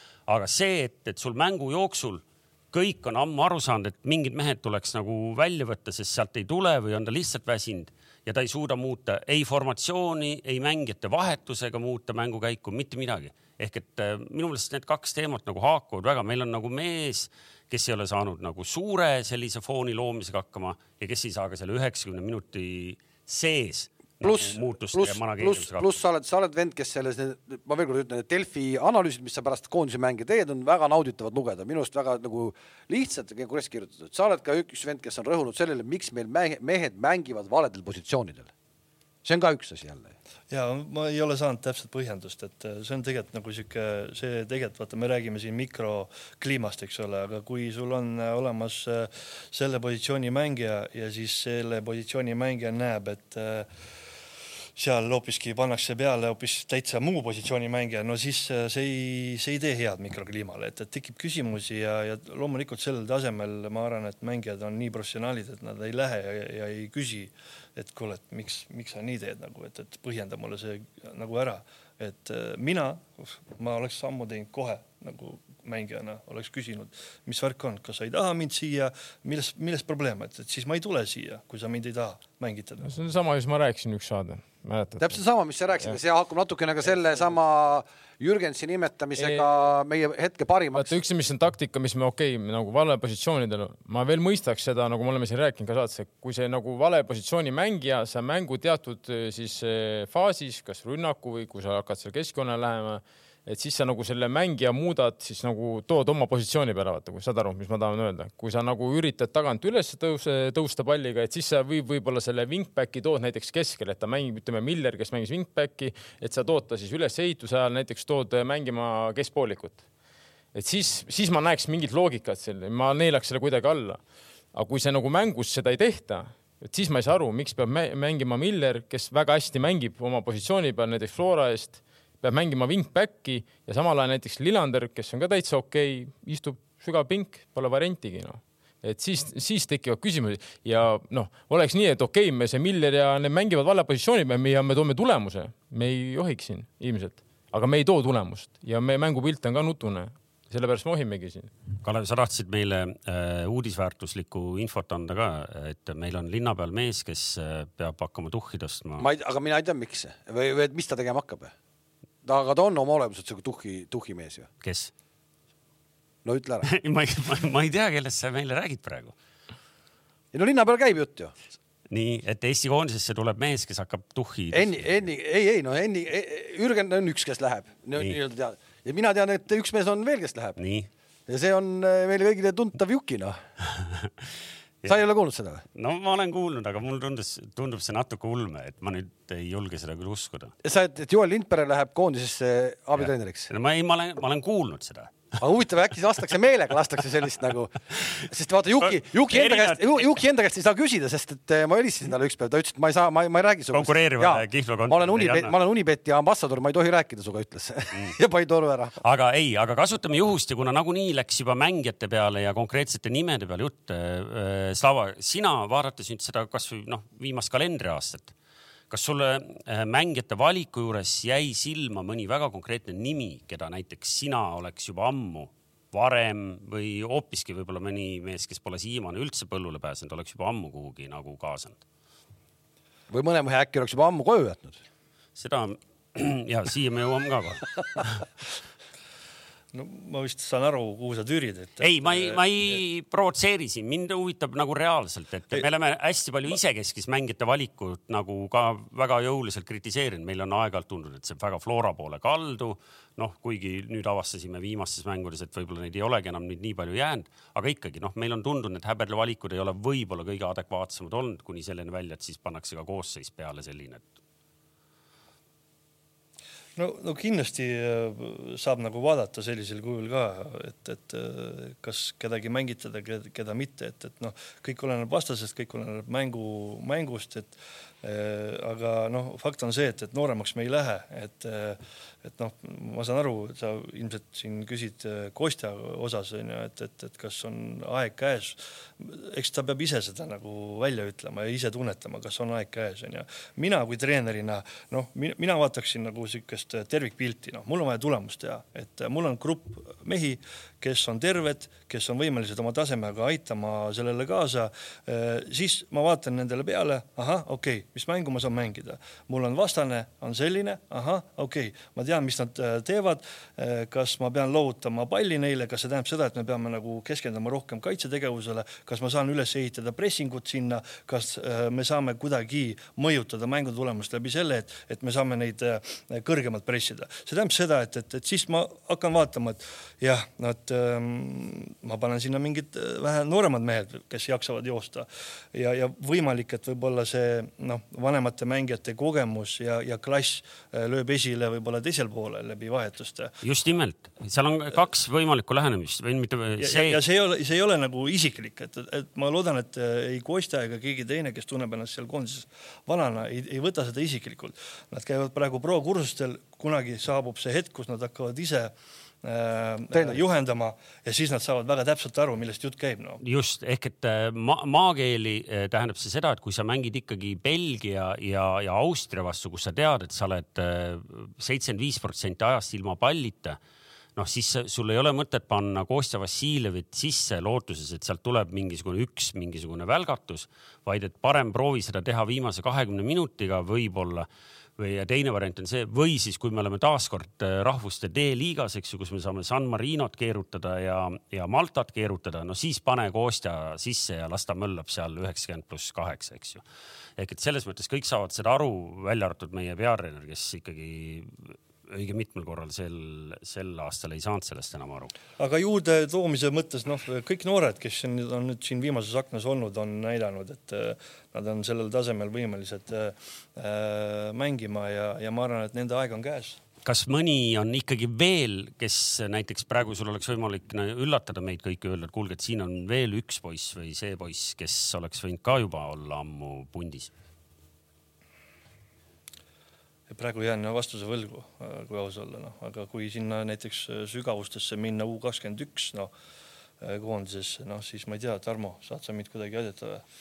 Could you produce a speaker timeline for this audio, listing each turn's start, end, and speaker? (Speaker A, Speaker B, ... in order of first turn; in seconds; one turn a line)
Speaker A: 0.3-25.9
Speaker B: 24.2-38.5
Speaker B: 39.2-40.1
Speaker C: 40.5-53.7
Speaker C: 54.8-82.9
Speaker D: 82.8-85.2
Speaker B: 85.0-91.0
Speaker D: 89.2-89.6
Speaker D: 90.8-119.8
Speaker D: 120.5-124.0
Speaker D: 124.5-151.5
Speaker A: 151.8-159.1
Speaker B: 159.0-161.5
Speaker B: 162.2-164.5
Speaker A: 164.6-164.9
Speaker B: 166.2-166.7
Speaker A: 166.6-169.1
Speaker B: 170.3-171.3
Speaker A: 171.9-174.9
Speaker B: 174.5-180.6
Speaker A: 180.6-180.9
Speaker B: 181.3-183.4
Speaker B: 184.8-185.6
Speaker A: 185.7-190.5
Speaker B: 190.6-193.5
Speaker A: 193.0-195.2
Speaker B: 195.4-208.9
Speaker A: 198.8-200.1
Speaker A: 203.7-205.5
Speaker A: 209.0-218.3
Speaker A: 218.9-231.8
Speaker B: 233.1-234.8
Speaker A: 235.3-238.2
Speaker C: 239.7-242.8
Speaker A: 241.8-264.0
Speaker C: 266.8-343.3
Speaker A: 343.4-347.0
Speaker C: 346.6-363.2
Speaker B: 359.9-360.2
Speaker A: 363.2-373.6
Speaker A: 374.1-384.3
Speaker A: 384.8-396.6
Speaker A: 397.2-405.1
Speaker C: 405.4-416.6
Speaker A: 416.8-427.1
Speaker C: 430.1-436.1
Speaker C: 436.8-440.0